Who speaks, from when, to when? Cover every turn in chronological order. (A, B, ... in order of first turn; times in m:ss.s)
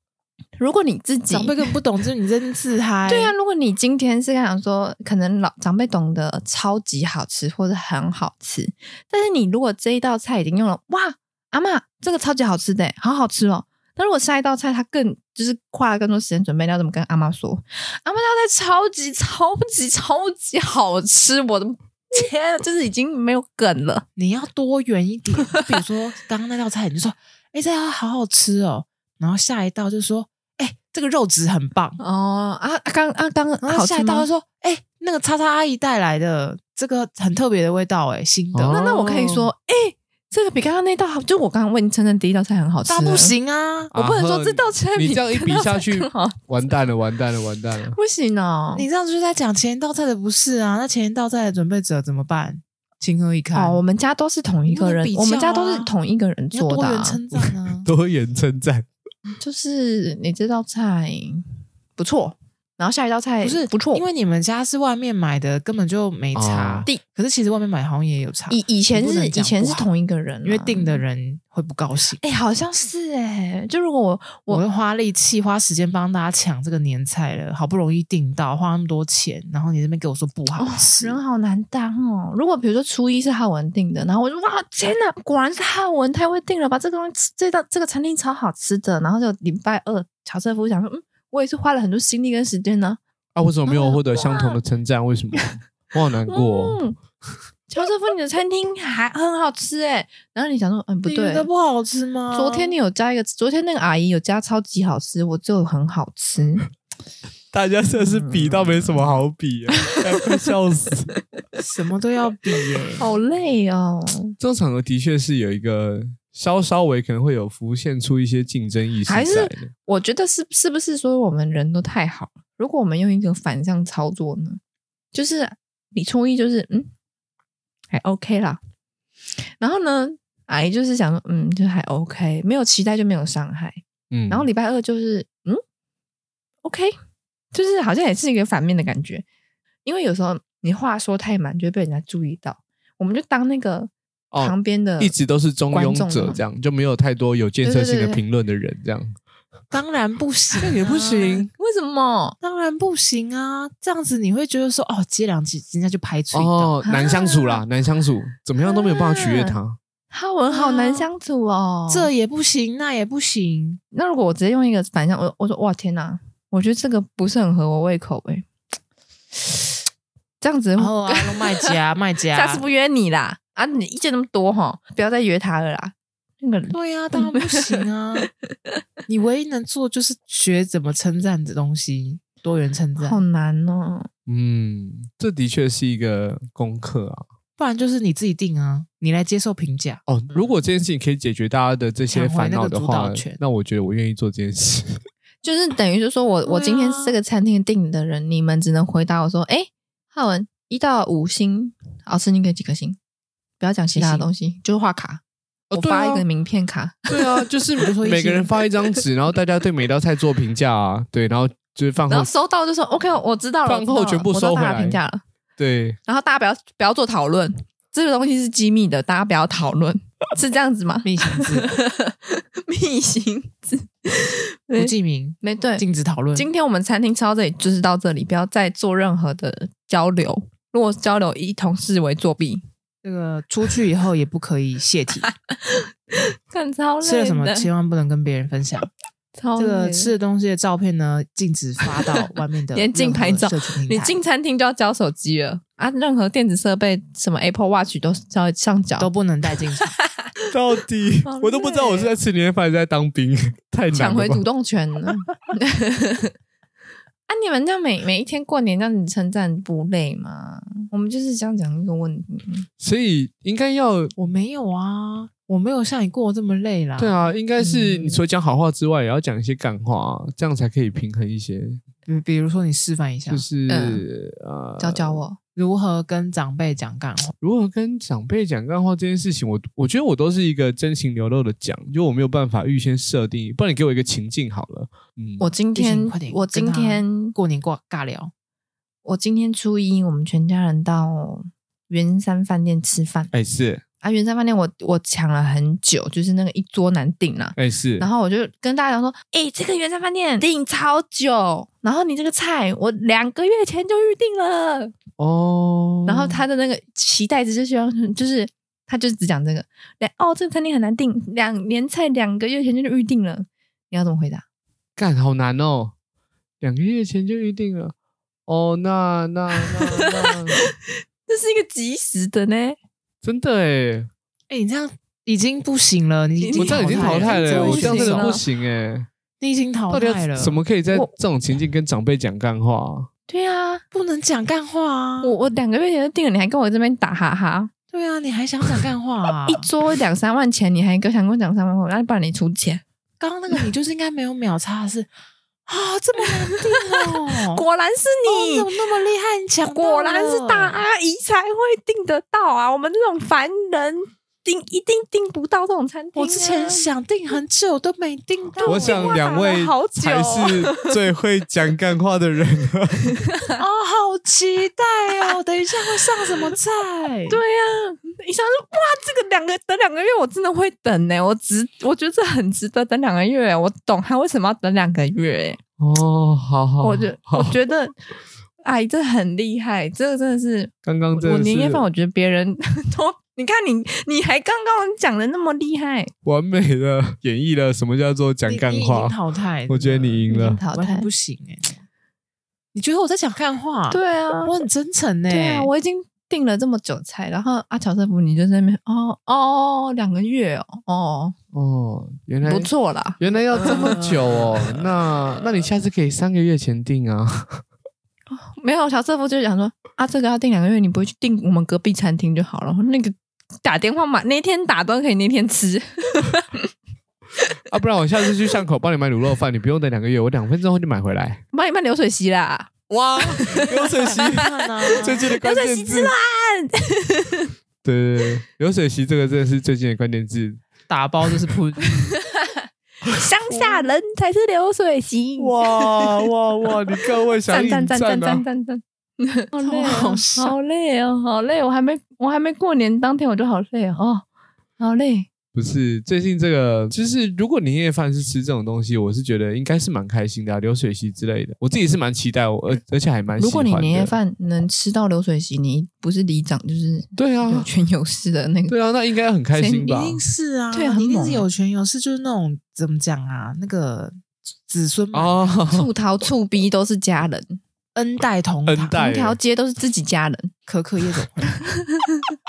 0:00.6-0:01.6 A
0:01.3-0:03.3 B
0:03.1-0:24.1 A
0:24.2-0:32.0 B
0:32.0-0:34.3 A
0:33.6-0:38.8 B
0:38.5-0:39.5 C
0:38.7-0:43.4 A
0:42.9-0:43.9 B
0:43.9-0:48.0 C
0:43.9-0:46.4 A
0:47.9-0:48.9 A
0:48.7-0:53.8 B
0:53.5-0:57.2 A
0:54.7-0:55.9 B
0:56.5-0:57.9 B
0:57.4-0:58.9 C
0:59.4-1:04.0 A
1:03.4-1:09.9 B
1:06.4-1:06.9 C
1:08.5-1:11.0 A
1:10.4-1:12.2 B
1:12.2-1:14.6 A
1:14.5-1:21.2 B
1:20.6-1:33.0 A
1:33.4-1:36.8 C
1:33.7-1:34.6 A
1:36.3-1:37.0 A
1:37.7-1:41.5 A
1:41.1-1:42.8 B
1:42.3-1:46.7 A
1:47.5-1:51.1 C
1:47.9-1:49.1 A
1:49.8-1:50.2 A
1:51.6-1:53.1 B
1:53.0-1:54.4 A
1:54.4-1:59.7 C
1:59.1-2:04.6 A
2:05.1-2:06.9 A
2:07.9-2:08.6 A
2:09.6-2:15.6 A
2:14.1-2:14.5 C
2:16.6-2:17.0 A
2:17.5-2:19.2 A
2:19.8-2:25.2 A
2:24.3-2:29.2 C
2:25.7-2:26.4 A
2:27.6-2:28.2 A
2:29.7-2:31.5 B
2:30.6-2:31.5 C
2:31.6-2:32.4 A
2:32.4-2:36.8 B
2:36.3-2:39.8 C
2:36.8-2:37.6 A
2:38.6-2:39.6 A
2:40.1-2:42.1 A
2:40.5-2:41.1 B
2:41.9-2:43.8 B
2:43.9-2:48.5 A
2:50.4-2:51.7 A
2:50.8-2:52.6 B
2:52.3-2:57.8 A
2:56.7-2:58.3 B
2:58.4-2:58.8 A
2:59.1-3:03.2 B
3:03.0-3:04.1 A
3:04.3-3:07.2 C
3:07.6-3:10.0 B
3:10.1-3:15.0 C
3:12.1-3:13.4 B
3:15.4-3:23.0 A
3:16.4-3:17.2 B
3:23.6-3:25.2 A
3:24.0-3:24.3 B
3:25.7-3:26.2 C
3:25.7-3:27.5 A
3:27.1-3:32.3 C
3:27.8-3:28.5 B
3:32.1-3:35.2 A
3:33.7-3:35.0 C
3:35.6-3:36.0 C
3:36.1-3:45.8 A
3:41.0-3:41.8 B
3:44.8-3:46.5 B
3:46.4-3:52.6 A
3:53.0-3:55.3 B
3:55.3-3:57.7 A
3:57.0-3:58.9 B
3:59.4-4:00.1 A
3:59.6-4:04.2 B
4:02.7-4:09.1 A
4:09.0-4:10.0 B
4:10.5-4:14.4 C
4:11.3-4:12.1 A
4:13.9-4:16.3 A
4:17.3-4:22.7 A
4:22.8-4:24.1 C
4:24.2-4:27.2 B
4:27.0-4:31.8 C
4:27.6-4:28.2 A
4:32.1-4:33.5 B
4:33.3-4:35.2 C
4:33.7-4:34.0 A
4:34.8-4:35.4 A
4:35.6-4:37.3 B
4:37.4-4:45.5 C
4:45.4-4:47.4 A
4:45.8-4:48.3 B
4:49.0-4:53.3 A
4:53.3-4:53.8 C
4:54.0-5:04.9 A
4:57.6-4:58.1 C
5:05.2-5:06.4 C
5:06.1-5:14.4 A
5:15.0-5:15.9 C
5:16.6-5:17.9 C
5:18.5-5:20.6 C
5:19.7-5:20.7 A
5:21.3-5:22.8 A
5:23.2-5:24.1 C
5:24.5-5:28.4 B
5:26.4-5:28.4 A
5:26.6-5:29.1 C
5:29.4-5:30.6 B
5:29.9-5:33.1 C
5:33.3-5:33.8 A
5:33.9-5:35.3 B
5:35.2-5:37.7 A
5:37.9-5:39.7 B
5:39.5-5:42.8 A
5:43.2-5:45.1 B
5:45.7-5:47.6 B
5:46.3-5:48.7 A
5:48.3-5:50.8 B
5:49.7-5:56.9 A
5:56.2-5:59.2 B
5:58.6-6:00.9 A
5:58.7-6:03.1 C
6:03.6-6:07.4 B
6:05.2-6:06.2 A
6:07.3-6:15.6 A
6:15.8-6:17.6 C
6:16.8-6:17.9 A
6:18.6-6:26.1 A
6:20.8-6:21.9 C
6:26.2-6:29.2 C
6:28.5-6:31.8 B
6:29.7-6:30.6 C
6:30.3-6:31.1 A
6:32.7-6:35.7 B
6:33.9-6:34.6 A
6:35.3-6:41.4 A
6:41.5-6:47.6 C
6:42.4-6:44.0 A
6:43.6-6:44.5 B
6:48.3-6:56.7 A
6:57.7-7:01.4 C
7:01.5-7:02.7 A
7:02.9-7:06.1 C
7:03.3-7:03.7 A
7:03.7-7:05.3 B
7:05.2-7:07.5 A
7:07.8-7:10.6 C
7:10.9-7:11.9 B
7:12.0-7:16.3 A
7:15.4-7:18.4 C
7:17.5-7:24.2 A
7:19.6-7:20.6 B
7:24.8-7:25.3 A
7:25.5-7:34.2 C
7:33.4-7:38.8 A
7:37.2-7:37.7 C
7:38.7-7:40.2 C
7:39.6-7:39.9 A
7:39.8-7:44.2 B
7:40.7-7:41.5 A
7:44.7-7:45.6 B
7:45.1-7:45.9 C
7:45.7-7:47.6 A
7:48.0-7:49.0 B
7:48.7-7:49.4 C
7:48.9-7:50.5 A
7:50.7-7:51.5 B
7:51.7-7:52.2 A